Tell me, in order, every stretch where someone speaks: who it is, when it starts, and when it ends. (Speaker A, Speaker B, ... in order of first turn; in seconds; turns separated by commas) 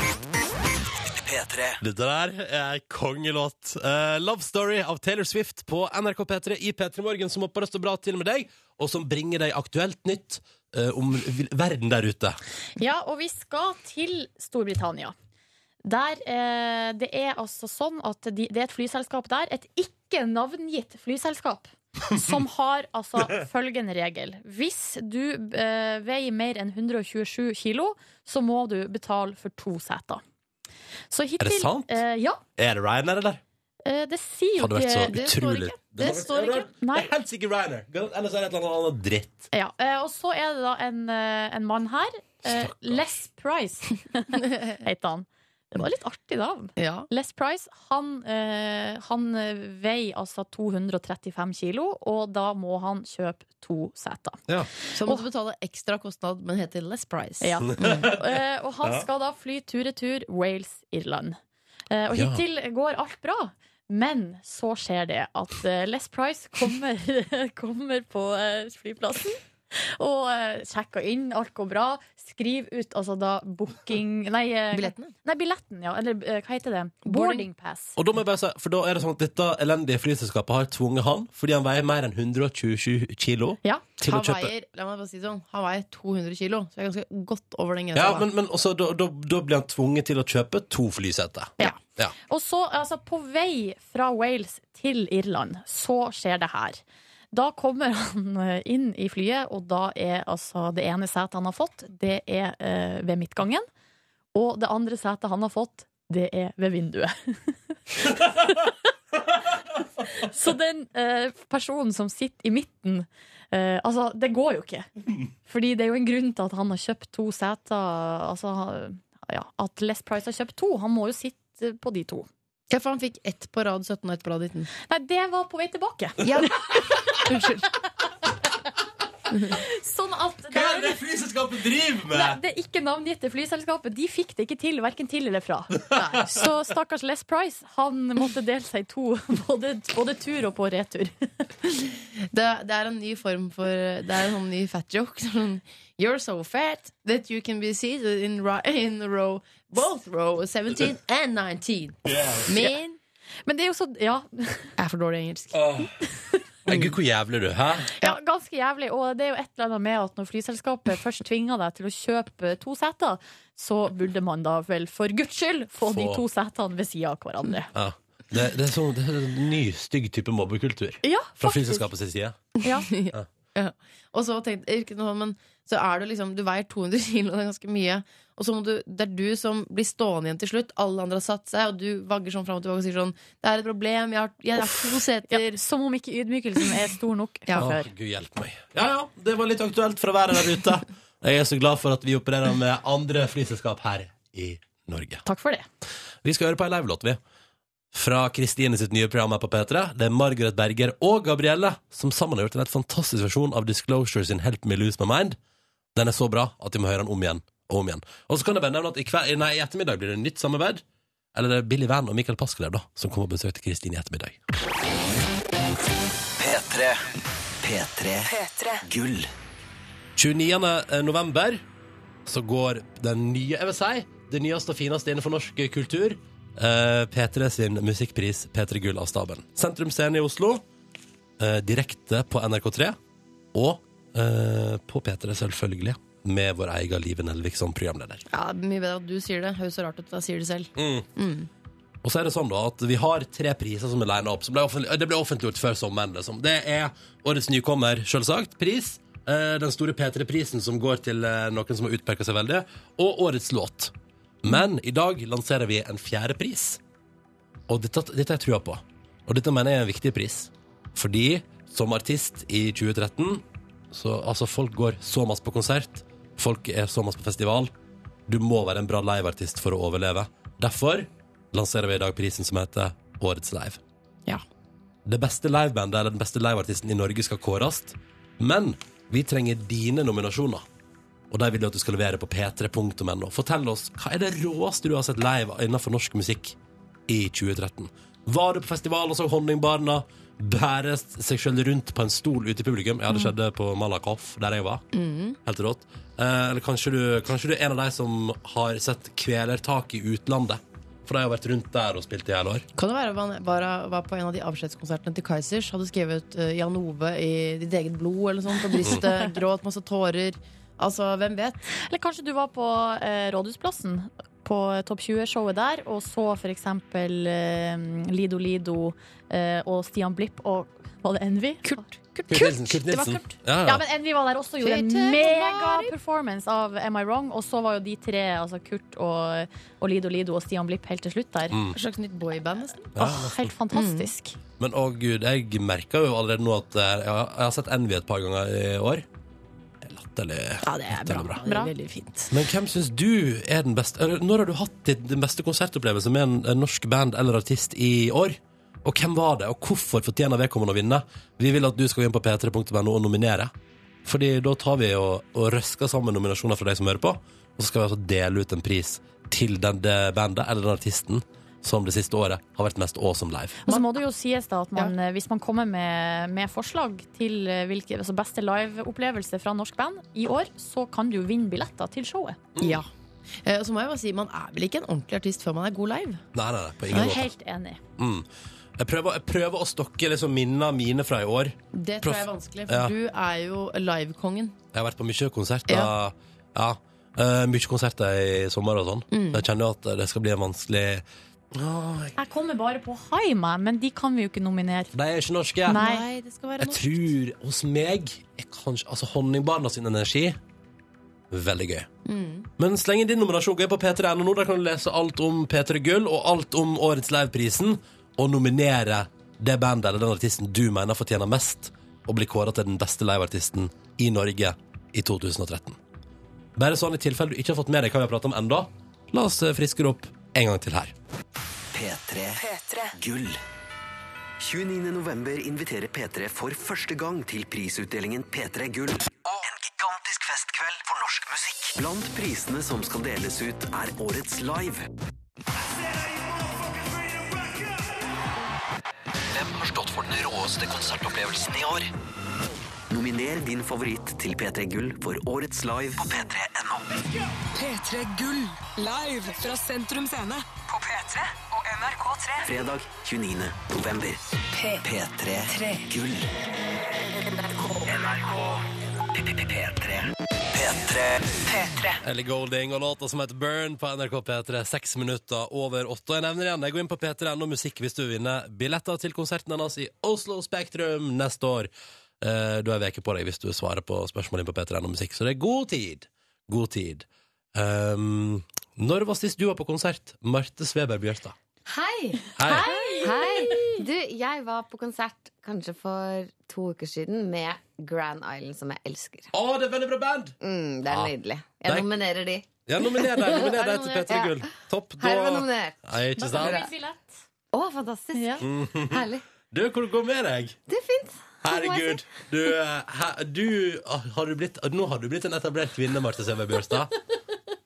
Speaker A: 1.2-1.8, Speaker B: 1.8-12.4, Speaker C: 12.8-15.2, Speaker C: 15.8-30.2, Speaker C: 31.1-32.4, Speaker B: 31.4-32.0, Speaker B: 32.6-33.4, Speaker C: 33.9-35.1, Speaker B: 34.6-39.5, Speaker D: 35.0-36.7, Speaker C: 36.7-37.1, Speaker C: 39.5-54.4, Speaker B: 42.5-43.0, Speaker D: 44.4-44.8, Speaker D: 46.8-47.1, Speaker D: 54.9-58.1, Speaker C: 57.4-61.4, Speaker B: 57.7-58.2, Speaker C: 61.9-78.0, Speaker B: 62.1-62.4, Speaker D: 74.7-75.1, Speaker D: 77.0-77.5, Speaker B: 78.0-84.5, Speaker D: 84.0-88.3, Speaker B: 88.0-92.1, Speaker C: 92.3-103.7, Speaker C: 104.3-108.7, Speaker C: 110.1-114.9, Speaker C: 115.5-122.3, Speaker D: 122.7-124.7, Speaker C: 124.8-127.3, Speaker D: 126.2-127.7, Speaker D: 129.3-129.6, Speaker C: 129.5-131.0, Speaker B: 130.5-132.4, Speaker C: 132.1-141.3, Speaker D: 135.9-136.2, Speaker D: 141.9-153.0, Speaker B: 152.1-152.4, Speaker C: 153.5-154.8, Speaker D: 154.8-155.6, Speaker B: 155.6-155.9, Speaker B: 156.7-157.9, Speaker C: 158.0-167.7, Speaker B: 165.9-166.2, Speaker B: 167.7-172.5, Speaker C: 171.0-171.9, Speaker C: 172.6-172.9, Speaker D: 172.6-185.6, Speaker C: 185.3-187.9, Speaker B: 187.6-195.2, Speaker C: 195.2-195.7, Speaker B: 196.2-197.2, Speaker B: 197.9-205.4, Speaker B: 205.9-210.8, Speaker B: 211.3-214.4, Speaker A: 216.4-217.0, Speaker A: 217.6-218.3, Speaker E: 218.3-218.8, Speaker A: 218.8-219.3, Speaker B: 220.2-221.6, Speaker B: 222.3-230.6, Speaker B: 231.4-233.0, Speaker B: 233.5-238.2, Speaker D: 238.3-241.5, Speaker B: 240.8-241.1, Speaker B: 242.0-256.8, Speaker B: 257.7-267.7, Speaker B: 268.3-273.8, Speaker B: 275.1-280.6, Speaker B: 281.3-286.6, Speaker B: 287.1-294.8, Speaker D: 294.9-295.4, Speaker B: 295.5-302.6, Speaker D: 302.8-311.6, Speaker C: 311.8-331.6, Speaker D: 321.6-322.5, Speaker B: 322.3-323.9, Speaker D: 324.6-325.9, Speaker B: 331.5-331.8, Speaker D: 331.7-332.9, Speaker B: 333.0-333.5, Speaker C: 333.0-334.4, Speaker D: 333.7-334.1, Speaker B: 334.6-339.1, Speaker B: 339.8-341.4, Speaker D: 340.6-342.3, Speaker C: 341.4-341.7, Speaker B: 342.3-353.5, Speaker B: 354.1-363.6, Speaker C: 363.6-372.4, Speaker D: 363.7-364.0, Speaker B: 372.6-372.8, Speaker D: 372.6-372.9, Speaker D: 373.4-376.2, Speaker B: 376.4-377.3, Speaker C: 376.9-377.8, Speaker B: 378.0-378.2, Speaker B: 378.8-382.9, Speaker D: 381.7-384.6, Speaker B: 384.7-392.2, Speaker D: 389.1-389.5, Speaker C: 392.2-394.9, Speaker B: 394.9-395.8, Speaker D: 395.7-397.1, Speaker C: 395.7-396.1, Speaker B: 396.6-400.4, Speaker B: 401.3-401.9, Speaker D: 402.1-402.5, Speaker B: 402.6-415.8, Speaker B: 416.6-420.9, Speaker A: 421.7-423.4, Speaker E: 422.4-422.9, Speaker A: 424.4-434.9, Speaker A: 439.3-441.9, Speaker A: 442.9-447.1, Speaker E: 447.6-452.5, Speaker A: 452.4-454.2, Speaker E: 454.6-454.8, Speaker A: 454.8-456.3, Speaker E: 455.5-455.8, Speaker A: 457.8-458.6, Speaker A: 459.1-461.4, Speaker E: 461.5-461.9, Speaker B: 462.0-471.7, Speaker B: 472.2-481.4, Speaker F: 481.7-482.4, Speaker B: 482.4-482.7, Speaker C: 482.4-483.8, Speaker D: 482.8-483.3, Speaker F: 483.0-489.3, Speaker B: 489.3-490.4, Speaker F: 490.4-493.5, Speaker B: 492.7-496.7, Speaker D: 493.3-494.2, Speaker F: 494.1-496.7, Speaker C: 496.2-497.1, Speaker F: 497.5-499.2, Speaker C: 498.1-498.4, Speaker B: 498.4-500.6, Speaker F: 500.7-502.2, Speaker B: 501.4-506.9